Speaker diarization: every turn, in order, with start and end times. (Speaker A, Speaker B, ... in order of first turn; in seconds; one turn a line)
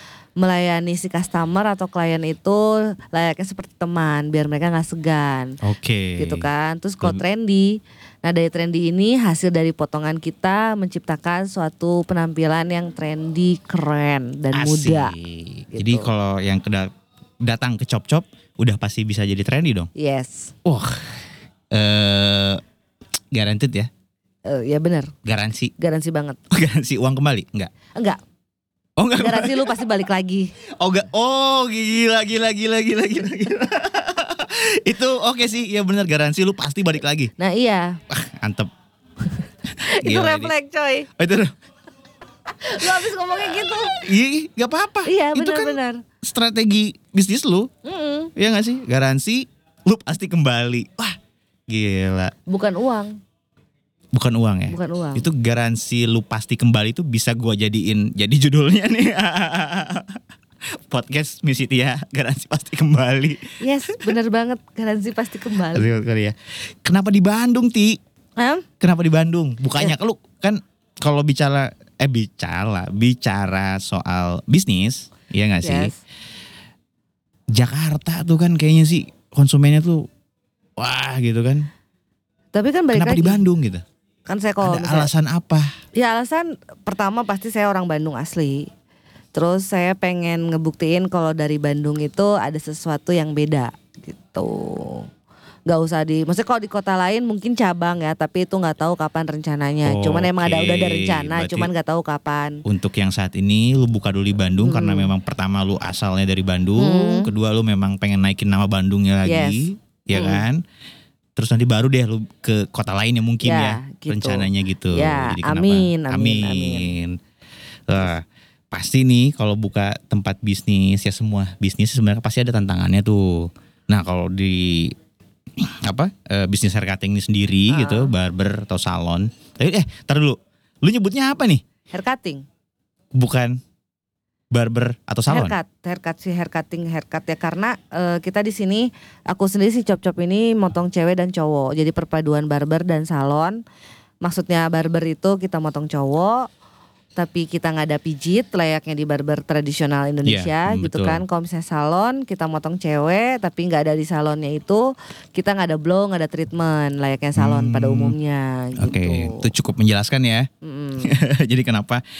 Speaker A: 0.4-5.6
Speaker B: 5.6-6.5
Speaker A: 6.2-15.1
Speaker B: 14.5-19.9
Speaker A: 15.7-16.1
Speaker A: 19.9-20.6
Speaker B: 20.6-22.6
Speaker B: 23.3-23.9
Speaker A: 24.4-25.1
Speaker B: 25.2-25.7
Speaker A: 25.8-26.4
Speaker B: 26.5-27.7
Speaker A: 27.9-28.2
Speaker B: 29.0-29.7
Speaker A: 29.1-30.5
Speaker B: 30.8-37.3
Speaker A: 37.4-38.0
Speaker B: 38.1-38.7
Speaker B: 39.8-40.5
Speaker A: 39.8-41.1
Speaker B: 41.2-41.5
Speaker A: 42.5-44.1
Speaker B: 44.0-47.7
Speaker A: 45.0-46.0
Speaker A: 47.8-48.3
Speaker B: 48.4-51.2
Speaker B: 51.7-52.3
Speaker A: 52.5-53.2
Speaker B: 54.1-60.2
Speaker A: 54.7-55.2
Speaker B: 60.7-64.1
Speaker A: 63.6-65.9
Speaker B: 65.7-68.0
Speaker A: 68.4-68.7
Speaker B: 68.8-75.9
Speaker A: 75.6-76.0
Speaker B: 77.5-80.1
Speaker B: 80.8-81.7
Speaker A: 82.5-83.4
Speaker B: 82.9-83.8
Speaker A: 84.3-85.1
Speaker B: 84.6-85.7
Speaker A: 85.9-88.7
Speaker A: 89.3-95.1
Speaker A: 95.7-102.6
Speaker B: 99.8-101.7
Speaker B: 102.6-110.6
Speaker A: 104.6-105.1
Speaker A: 106.8-107.3
Speaker A: 109.2-110.4
Speaker B: 111.3-117.2
Speaker A: 113.4-116.9
Speaker B: 117.9-125.0
Speaker B: 125.6-131.6
Speaker A: 127.7-128.1
Speaker A: 131.9-132.4
Speaker B: 133.1-133.6
Speaker B: 134.5-135.5
Speaker A: 135.3-143.6
Speaker A: 144.2-146.5
Speaker A: 147.2-159.5
Speaker B: 150.2-151.2
Speaker B: 157.3-158.2
Speaker B: 158.8-160.5
Speaker A: 160.6-161.2
Speaker B: 161.0-162.0